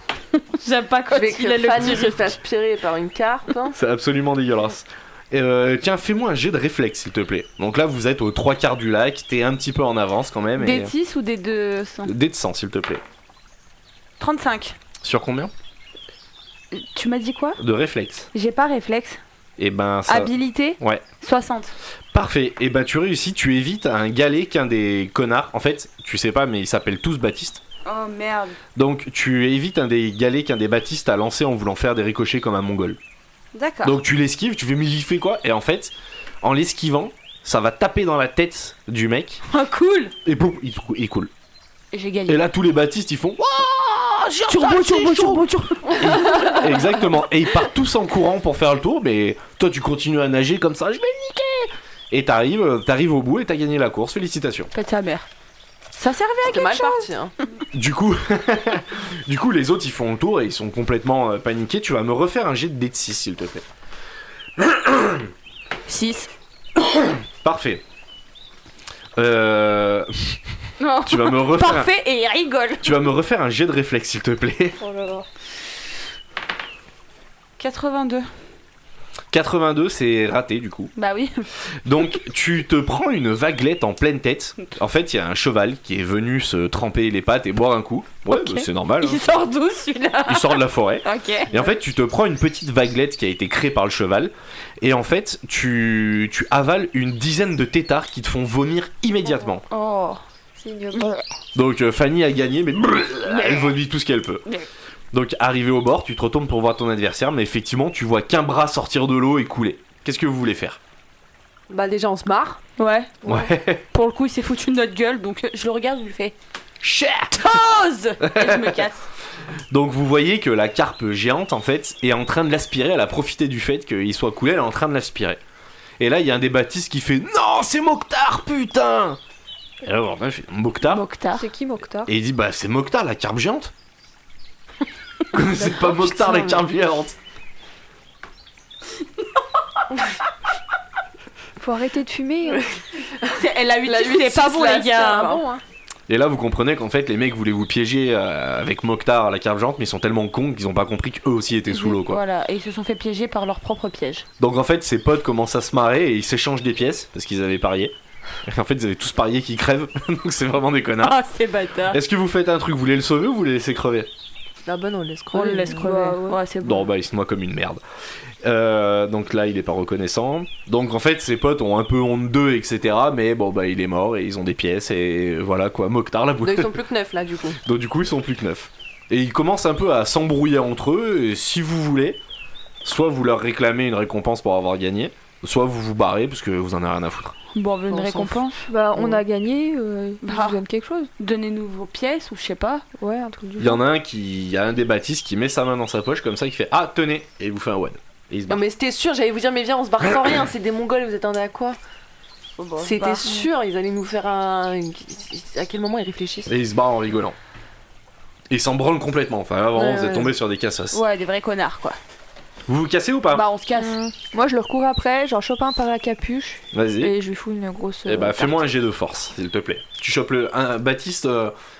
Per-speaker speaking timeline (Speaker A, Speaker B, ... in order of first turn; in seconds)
Speaker A: 0.3-2.3, 10.6-12.1, 14.2-14.8, 16.7-17.6, 18.3-19.2, 20.1-21.7, 27.8-28.6, 33.5-34.0, 39.5-40.1, 41.9-42.4, 44.5-46.6, 54.7-55.3, 55.9-57.1, 65.8-66.3, 70.8-73.0, 77.6-78.3, 81.0-81.5, 88.3-91.5, 99.7-100.2, 100.9-101.2, 103.3-103.7, 112.8-113.2, 113.9-116.3, 117.3-119.0, 130.8-131.4, 143.3-145.4, 151.7-154.2, 161.0-162.0, 165.3-166.9, 187.5-188.6, 190.2-190.6, 191.2-192.8, 202.6-203.4, 210.9-212.0, 213.3-214.0
Speaker B: 1.1-3.8, 56.4-57.3, 111.7-112.6, 143.8-145.6, 164.7-165.9, 176.4-177.6, 187.9-188.4, 188.9-189.2, 198.5-201.8, 202.8-206.5, 209.7-210.3, 213.8-214.1
Speaker C: 3.7-10.9, 12.0-13.0, 15.0-15.5, 17.6-18.3, 19.6-21.0, 22.1-27.6, 28.8-33.0, 33.8-39.4, 40.2-41.3, 42.3-54.7, 57.7-63.6, 64.6-65.3, 66.8-67.8, 69.2-70.4, 71.0-71.9, 72.8-74.8, 79.3-80.9, 81.8-89.2, 90.3-99.6, 101.5-104.4, 105.1-110.8, 113.2-113.8, 116.8-117.5, 118.2-118.8, 119.7-125.4, 126.0-129.2, 129.8-131.0, 132.1-133.7, 135.3-137.2, 146.1-152.2, 154.4-161.2, 161.9-164.1, 166.6-167.8, 168.4-176.8, 177.6-182.2, 182.8-187.3, 193.6-198.6, 206.5-207.4, 208.5-211.0, 212.7-213.5, 216.7-217.1, 218.1-221.5
Speaker D: 74.8-75.2, 100.5-101.1, 113.2-113.5, 131.3-132.1, 135.6-136.1, 141.6-142.7, 165.6-166.4, 188.7-191.1, 193.0-193.8, 214.2-218.6